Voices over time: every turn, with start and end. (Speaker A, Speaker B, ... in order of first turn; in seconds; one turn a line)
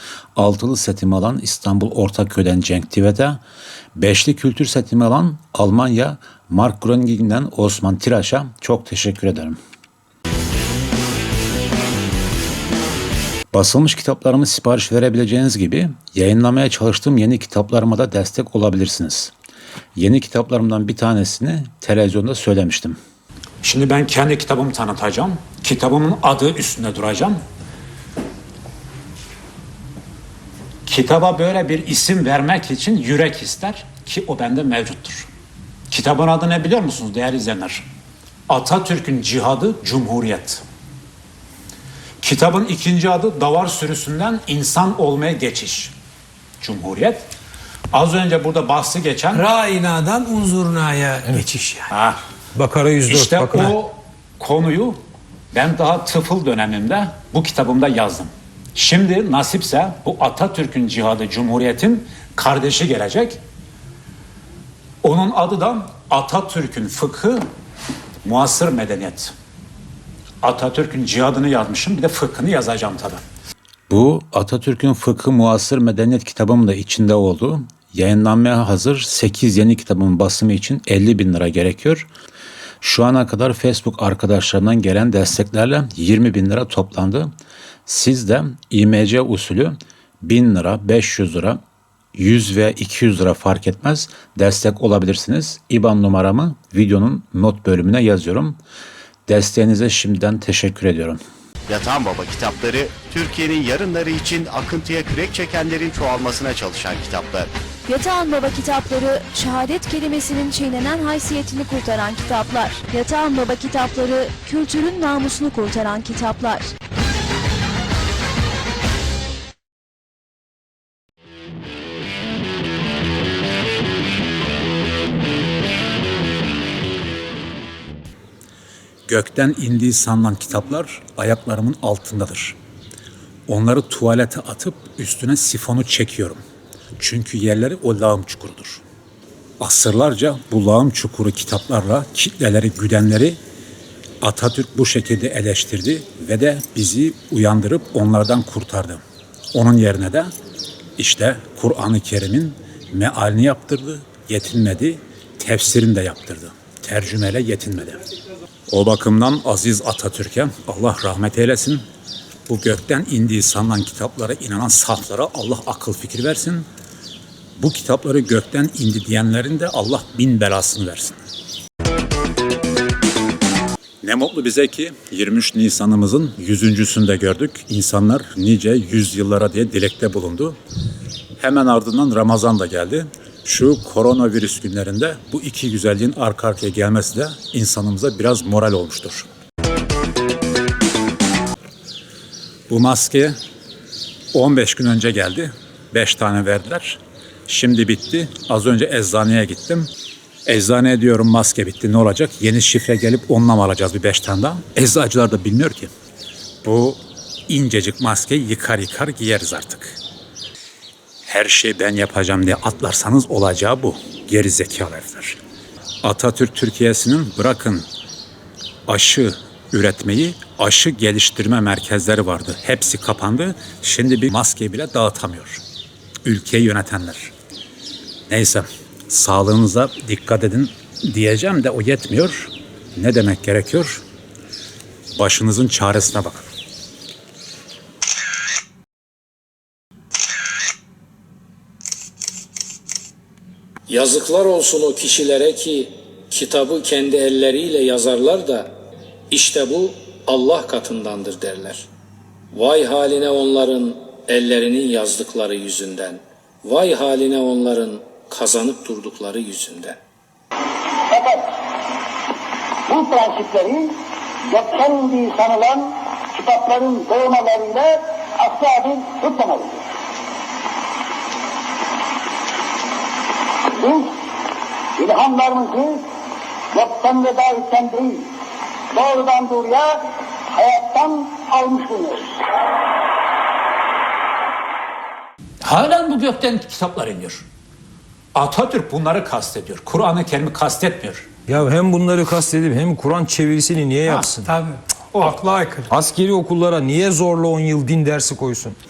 Speaker A: 0.4-3.4
Speaker A: 4.0-9.6
Speaker A: 13.5-19.3
Speaker A: 20.0-23.0
Speaker A: 23.6-27.4
Speaker A: 30.9-35.3
Speaker A: 35.9-37.9
Speaker A: 38.5-40.6
Speaker A: 42.2-45.9
Speaker A: 46.6-47.2
Speaker A: 47.9-49.4
Speaker B: 49.3-51.9
Speaker C: 52.5-53.8
Speaker A: 53.1-55.0
Speaker A: 55.5-63.4
Speaker A: 65.0-67.4
Speaker A: 68.2-69.3
Speaker A: 70.4-73.2
Speaker A: 73.9-82.1
Speaker A: 82.8-87.3
Speaker A: 87.9-91.6
Speaker A: 92.2-98.6
Speaker A: 99.3-101.2
Speaker D: 101.7-107.5
Speaker E: 107.9-116.7
Speaker A: 129.1-132.6
Speaker A: 133.5-136.4
Speaker A: 137.0-138.8
Speaker A: 139.6-143.4
Speaker A: 144.2-149.0
Speaker A: 149.5-150.3
Speaker A: 151.0-158.0
Speaker A: 158.7-161.8
Speaker A: 162.5-166.7
Speaker A: 167.6-171.2
Speaker A: 174.0-180.6
Speaker A: 181.4-189.3
Speaker A: 192.7-193.4
Speaker A: 194.3-199.9
Speaker A: 200.5-205.9
Speaker A: 206.6-210.0
Speaker A: 211.3-215.4
Speaker A: 216.0-217.9
Speaker A: 218.9-225.6
Speaker A: 226.2-227.3
Speaker A: 228.3-234.0
Speaker A: 235.2-236.4
Speaker F: 243.9-248.8
Speaker F: 249.3-251.9
Speaker F: 252.5-260.0
Speaker G: 261.1-261.5
Speaker G: 262.9-263.9
Speaker G: 264.5-269.8
Speaker G: 273.7-274.1
Speaker G: 275.0-276.1
Speaker G: 276.7-278.3
Speaker G: 278.9-282.4
Speaker A: 285.6-287.4
Speaker A: 288.4-291.3
Speaker C: 291.5-294.5
Speaker B: 294.4-295.9
Speaker C: 295.9-298.8